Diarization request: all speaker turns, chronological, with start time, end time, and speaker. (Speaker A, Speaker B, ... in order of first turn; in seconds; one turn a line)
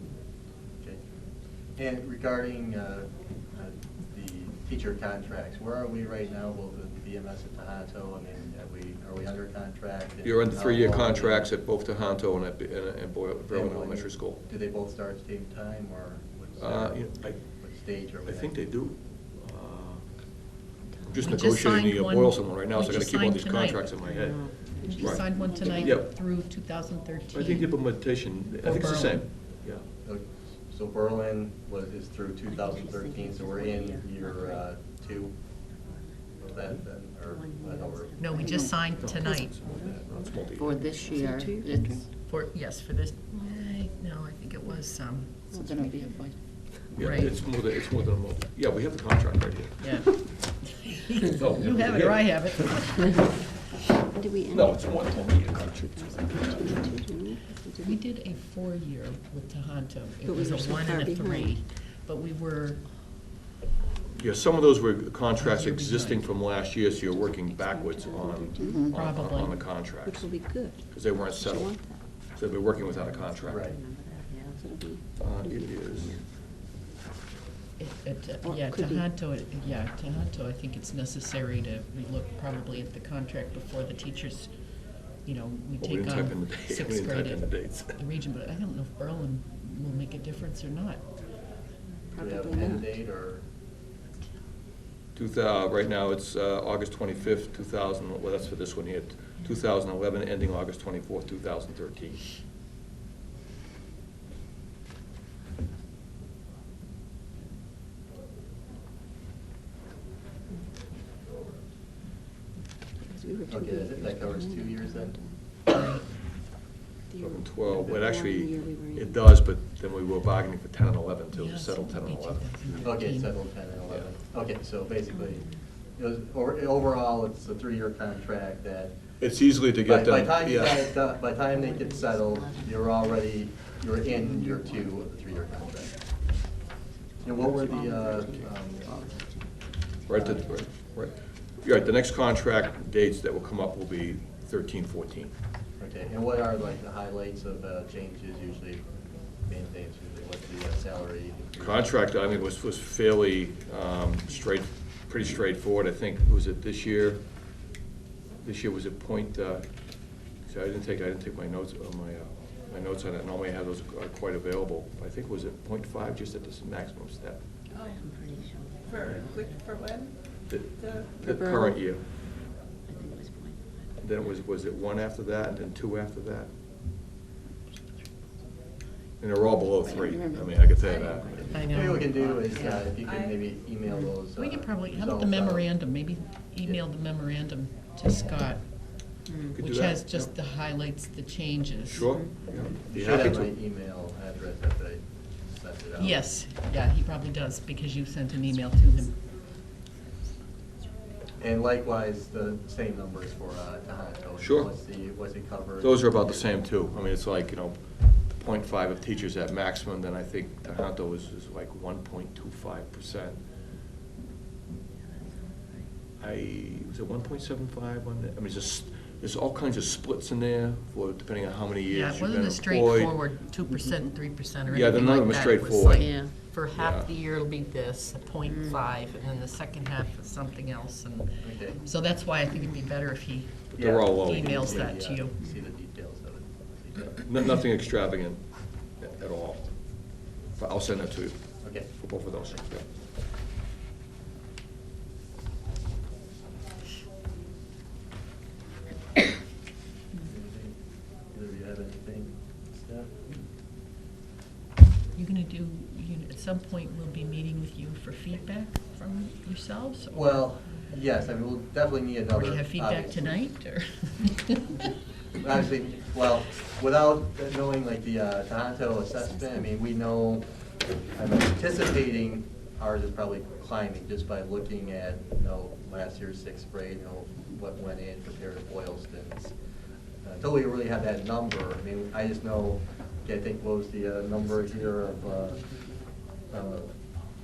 Speaker A: 1.8-11.5
Speaker B: 10.2-14.4
Speaker A: 13.5-18.6
Speaker B: 16.6-17.4
Speaker B: 18.2-20.2
Speaker B: 21.0-26.1
Speaker C: 21.2-23.9
Speaker D: 24.1-25.2
Speaker C: 24.8-27.9
Speaker E: 25.2-25.8
Speaker B: 27.3-29.9
Speaker C: 28.6-29.2
Speaker A: 30.0-35.4
Speaker D: 32.5-34.7
Speaker D: 35.7-36.4
Speaker A: 36.4-38.4
Speaker D: 37.2-38.9
Speaker C: 38.2-39.6
Speaker E: 38.4-38.8
Speaker B: 39.0-40.9
Speaker D: 39.5-40.3
Speaker E: 40.6-42.0
Speaker D: 40.9-42.1
Speaker C: 42.2-45.5
Speaker D: 45.5-46.1
Speaker E: 45.5-46.6
Speaker B: 46.9-50.2
Speaker C: 47.0-47.4
Speaker C: 49.8-53.5
Speaker B: 51.2-53.2
Speaker D: 53.9-58.0
Speaker B: 54.5-57.0
Speaker C: 57.8-62.9
Speaker D: 60.3-61.6
Speaker B: 64.2-73.7
Speaker C: 65.4-66.3
Speaker D: 67.0-69.0
Speaker E: 68.7-68.9
Speaker C: 68.9-69.9
Speaker D: 70.0-76.2
Speaker A: 73.5-73.8
Speaker B: 75.2-76.2
Speaker C: 77.8-84.5
Speaker D: 78.5-79.0
Speaker C: 85.2-91.0
Speaker B: 85.8-88.0
Speaker D: 92.1-93.0
Speaker A: 92.2-93.4
Speaker B: 95.2-102.2
Speaker D: 113.0-115.4
Speaker A: 113.5-115.2
Speaker C: 115.7-116.1
Speaker D: 117.1-119.3
Speaker B: 117.2-122.9
Speaker C: 121.3-123.4
Speaker A: 122.8-129.0
Speaker D: 125.1-125.6
Speaker B: 129.2-130.9
Speaker A: 129.8-136.0
Speaker D: 131.3-133.0
Speaker D: 134.1-135.9
Speaker A: 137.2-138.9
Speaker E: 137.3-139.5
Speaker D: 137.7-138.4
Speaker B: 140.1-145.3
Speaker A: 140.1-140.5
Speaker A: 145.8-148.9
Speaker A: 149.4-152.0
Speaker B: 151.6-157.2
Speaker B: 158.4-159.7
Speaker B: 160.4-167.4
Speaker F: 167.8-168.0
Speaker D: 167.9-169.6
Speaker F: 168.9-170.1
Speaker B: 170.5-172.1
Speaker F: 170.8-171.1
Speaker E: 171.2-171.8
Speaker D: 173.1-173.4
Speaker B: 174.0-176.5
Speaker B: 179.2-181.6
Speaker E: 179.8-180.8
Speaker F: 180.9-181.2
Speaker C: 181.5-182.9
Speaker A: 181.7-185.7
Speaker F: 183.0-183.4
Speaker C: 184.3-192.2
Speaker B: 189.5-190.3
Speaker B: 191.9-193.5
Speaker A: 192.8-196.2
Speaker C: 196.0-199.2
Speaker A: 201.4-206.5
Speaker B: 204.4-204.7
Speaker B: 205.8-213.4
Speaker D: 215.2-215.8
Speaker B: 216.2-223.2
Speaker C: 221.9-235.4
Speaker B: 224.7-227.1
Speaker A: 231.4-231.8
Speaker B: 233.7-234.9
Speaker A: 233.8-237.2
Speaker B: 237.2-239.9
Speaker B: 240.6-242.9
Speaker A: 241.6-241.9
Speaker A: 250.2-250.8
Speaker A: 251.3-253.3
Speaker C: 255.2-260.5
Speaker A: 260.1-263.4
Speaker C: 262.3-264.9
Speaker A: 265.4-270.5
Speaker D: 269.2-269.7
Speaker A: 271.1-279.5
Speaker A: 280.2-285.6
Speaker A: 286.5-286.9